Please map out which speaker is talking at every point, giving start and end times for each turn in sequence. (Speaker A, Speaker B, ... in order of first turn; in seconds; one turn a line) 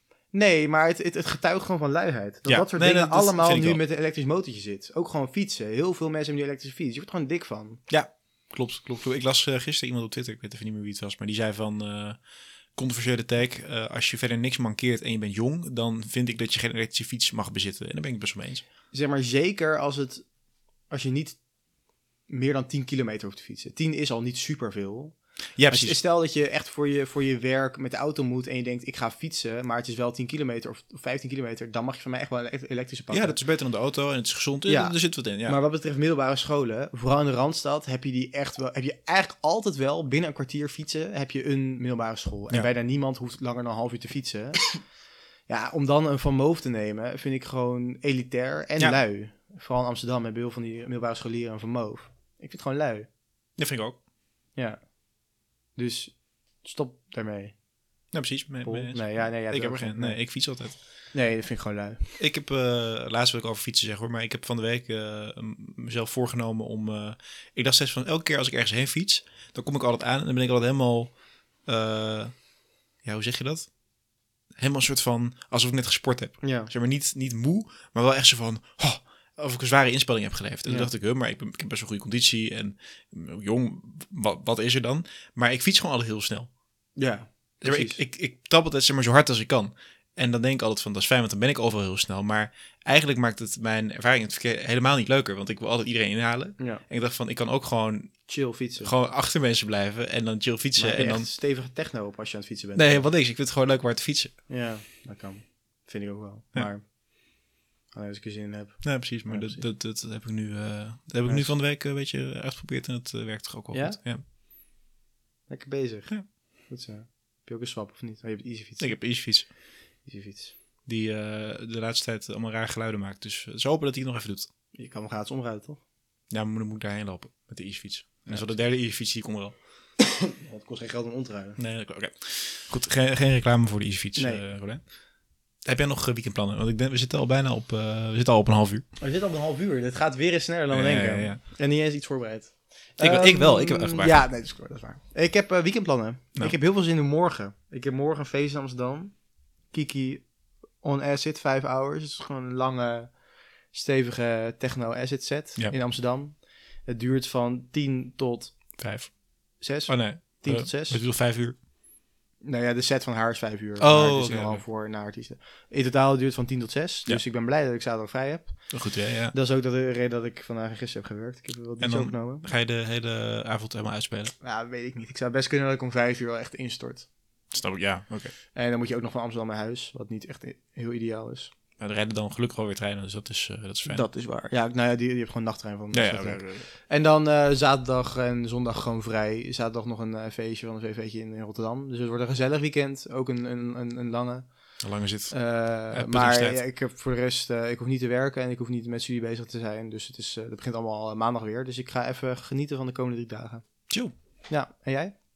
Speaker A: 0.3-7.8
Speaker B: 2.5-3.8
Speaker B: 7.9-12.2
Speaker B: 12.7-18.6
Speaker A: 18.9-20.2
Speaker A: 20.9-21.4
Speaker A: 22.3-33.4
Speaker B: 25.6-26.0
Speaker B: 33.1-35.6
Speaker A: 34.7-44.9
Speaker A: 45.5-53.1
Speaker B: 53.6-54.0
Speaker A: 54.5-54.9
Speaker A: 55.8-57.6
Speaker B: 58.1-60.8
Speaker A: 58.6-62.0
Speaker B: 62.2-72.4
Speaker B: 73.0-73.7
Speaker B: 74.5-86.5
Speaker A: 76.4-76.7
Speaker A: 87.0-88.0
Speaker B: 87.6-101.3
Speaker A: 96.6-96.8
Speaker A: 98.3-98.9
Speaker A: 100.8-103.1
Speaker B: 102.7-104.4
Speaker A: 104.5-106.9
Speaker A: 107.9-109.7
Speaker B: 108.8-114.2
Speaker A: 111.2-111.5
Speaker A: 113.7-114.0
Speaker A: 115.5-119.5
Speaker B: 118.8-119.5
Speaker A: 120.0-120.5
Speaker B: 120.8-124.5
Speaker A: 124.7-125.8
Speaker B: 126.3-129.6
Speaker A: 128.3-128.6
Speaker A: 130.0-131.6
Speaker B: 131.6-134.8
Speaker A: 134.2-134.4
Speaker B: 135.6-138.8
Speaker A: 139.0-149.2
Speaker B: 140.7-141.4
Speaker B: 143.0-144.2
Speaker A: 149.7-150.3
Speaker A: 150.8-158.7
Speaker B: 158.8-159.2
Speaker A: 159.6-161.0
Speaker B: 159.9-161.6
Speaker A: 162.4-172.5
Speaker B: 163.8-164.6
Speaker B: 168.7-169.3
Speaker B: 171.8-174.3
Speaker A: 174.4-177.1
Speaker B: 177.5-178.3
Speaker A: 178.5-181.5
Speaker B: 181.8-184.1
Speaker A: 183.8-194.8
Speaker B: 185.9-186.7
Speaker B: 194.8-196.6
Speaker A: 195.3-203.6
Speaker A: 204.5-205.1